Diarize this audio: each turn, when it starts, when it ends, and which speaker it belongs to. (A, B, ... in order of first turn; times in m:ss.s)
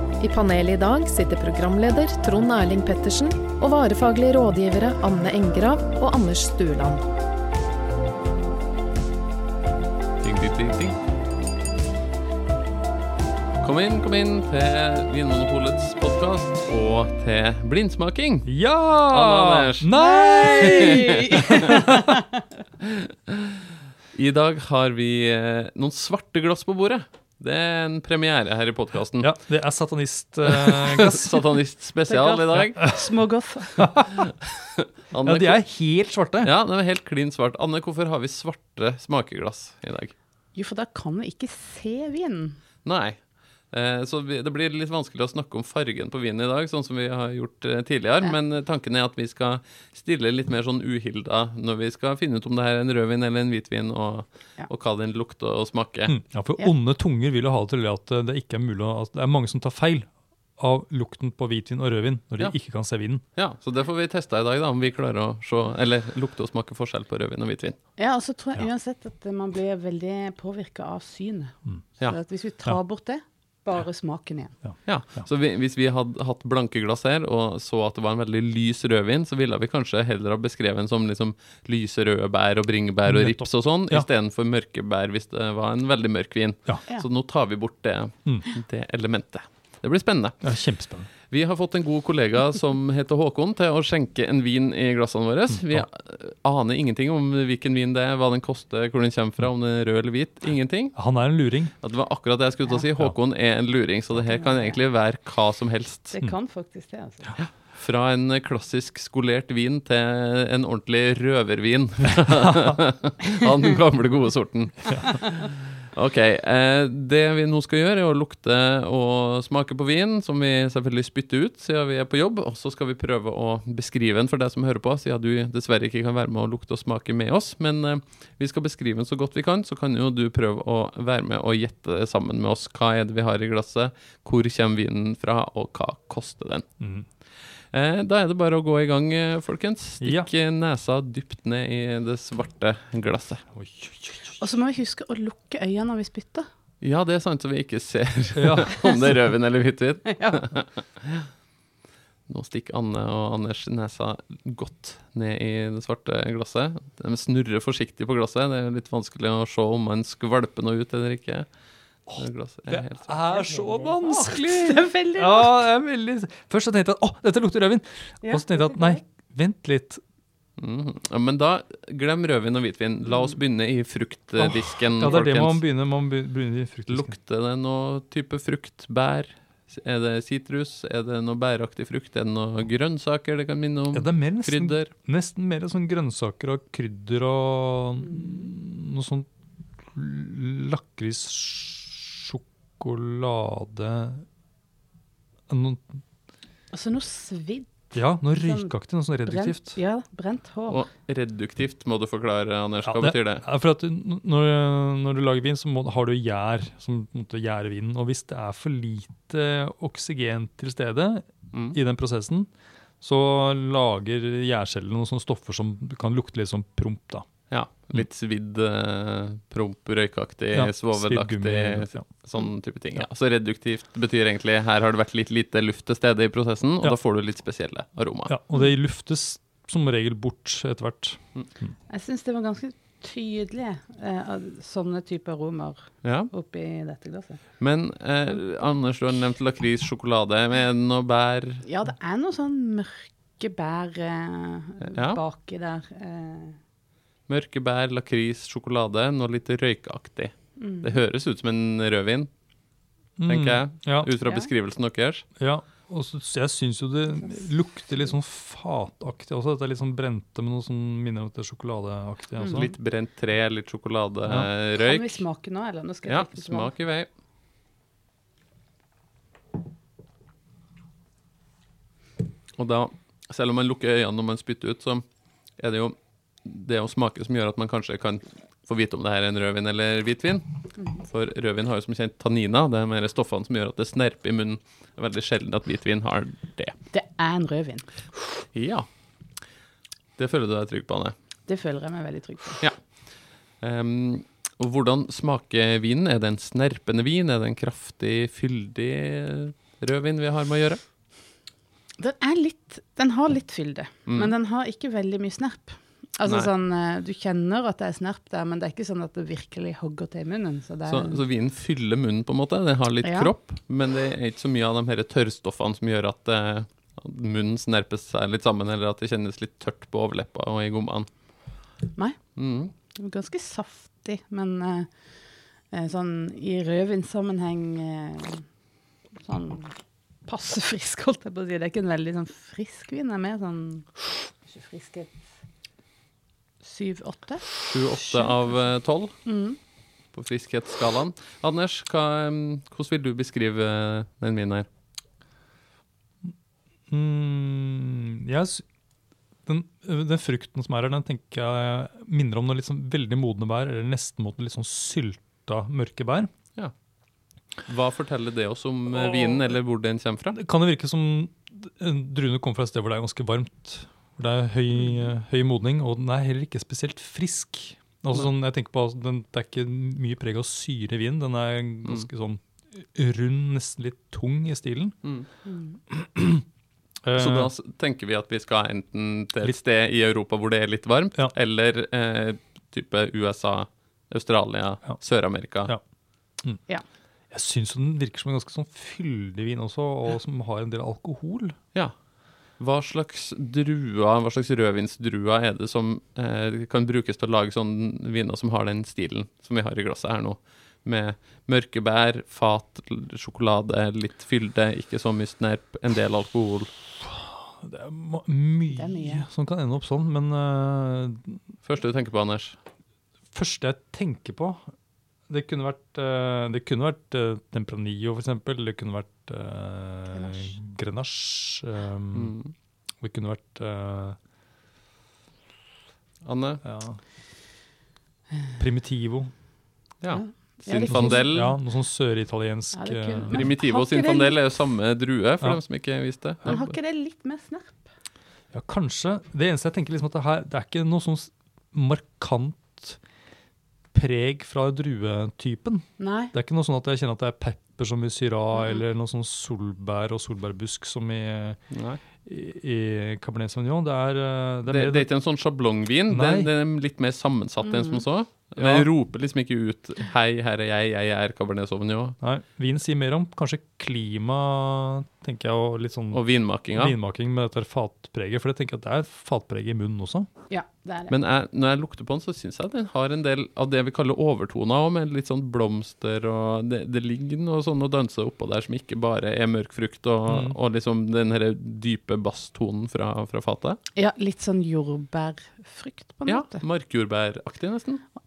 0:00.2-0:07.0 A
0:10.2-0:11.0 B
0:13.6-0:18.5 B
0:18.4-0:22.2 C
0:19.1-0:21.5 B
0:20.0-0:22.3 D
0:24.1-0:29.3 B
0:29.2-0:31.4 C
0:30.7-0:32.8 B
0:32.1-0:33.9 D
0:32.8-0:33.1 C
0:33.8-0:34.2 C
0:35.1-0:35.6 B
0:35.2-0:36.5 C
0:36.4-0:40.1 B
0:40.6-0:42.6 D
0:42.8-0:56.1 B
0:56.1-1:03.2 C
1:03.3-1:07.8 B
1:08.0-1:14.6 D
1:14.6-1:15.2 C
1:14.9-1:30.6 B
1:23.1-1:24.1 C
1:30.4-1:31.1 C
1:31.3-1:41.1 B
1:35.5-1:35.8 C
1:40.9-1:41.7 C
1:41.8-1:46.1 B
1:44.2-1:44.8 D
1:46.1-1:47.3 D
1:47.4-2:16.6 B
2:16.8-2:17.1 C
2:17.7-2:23.4 B
2:20.0-2:20.3 C
2:23.6-2:24.4 C
2:24.4-2:26.5 D
2:26.8-2:31.3 B
2:28.4-2:28.7 C
2:30.2-2:30.4 D
2:32.3-2:41.5 B
2:42.1-2:43.1 B
2:42.1-2:50.0 C
2:43.3-2:45.5 D
2:48.2-2:49.0 D
2:50.6-2:55.7 B
2:54.4-2:57.1 C
2:56.9-3:04.9 B
3:03.9-3:09.2 C
3:09.9-3:14.2 C
3:15.5-3:16.0 C
3:16.7-3:20.8 D
3:17.9-3:19.8 C
3:20.7-3:23.4 B
3:22.8-3:37.3 C
3:31.5-3:31.8 B
3:37.5-3:48.3 B
3:40.5-3:42.1 C
3:48.2-3:51.8 C
3:51.9-3:57.4 D
3:56.0-3:56.3 B
3:57.6-4:01.6 B
4:01.6-4:06.6 D
4:04.9-4:05.2 B
4:07.3-4:12.3 B
4:10.6-4:10.9 D
4:13.2-4:14.1 C
4:13.3-4:15.2 B
4:15.4-4:22.7 C
4:22.4-4:25.2 B
4:24.8-4:26.7 D
4:26.0-4:27.1 B
4:32.6-4:35.0 B
4:35.6-4:46.8 B
4:46.9-4:47.9 D
4:48.5-4:48.9 B
4:50.2-4:51.1 B
4:51.5-4:52.6 D
4:52.6-5:00.8 B
5:02.0-5:11.2 D
5:04.1-5:04.3 B
5:06.2-5:06.5 B
5:10.8-5:21.6 B
5:13.0-5:13.3 D
5:22.4-5:22.7 B
5:22.9-5:24.9 D
5:25.7-5:28.5 D
5:29.2-5:35.3 D
5:36.6-5:38.6 D
5:37.6-5:39.2 B
5:39.2-5:39.6 D
5:40.1-5:44.7 B
5:46.9-5:48.6 C
5:49.4-5:56.3 C
5:57.6-6:00.3 B
5:59.0-5:59.5 C
6:00.3-6:15.0 C
6:15.0-6:15.3 B
6:15.4-6:15.8 D
6:15.9-6:16.4 C
6:17.0-6:17.5 C
6:17.1-6:25.7 B
6:27.3-6:31.6 C
6:32.6-6:46.7 B
6:47.0-6:51.4 C
6:48.7-6:49.2 D
6:51.6-6:52.6 B
6:53.3-6:54.7 C
6:55.3-7:02.4 C
7:00.1-7:00.5 D
7:02.1-7:02.5 B
7:03.0-7:04.2 C
7:06.2-7:06.6 B
7:06.6-7:07.0 C
7:08.6-7:09.3 C
7:10.0-7:11.6 B
7:10.1-7:11.3 D
7:10.9-7:13.5 C
7:12.7-7:14.4 D
7:13.3-7:16.7 B
7:16.4-7:17.9 D
7:18.5-7:23.0 C
7:23.9-7:31.6 C
7:26.0-7:26.3 D
7:31.7-7:32.0 B
7:32.2-7:35.1 C
7:34.7-7:42.2 B
7:36.1-7:36.5 C
7:37.6-7:38.0 D
7:38.6-7:38.9 C
7:42.2-7:50.3 C
7:46.1-7:47.0 B
7:50.5-7:51.1 D
7:51.1-8:03.8 B
8:00.3-8:00.6 C
8:04.0-8:06.6 D
8:06.3-8:08.1 B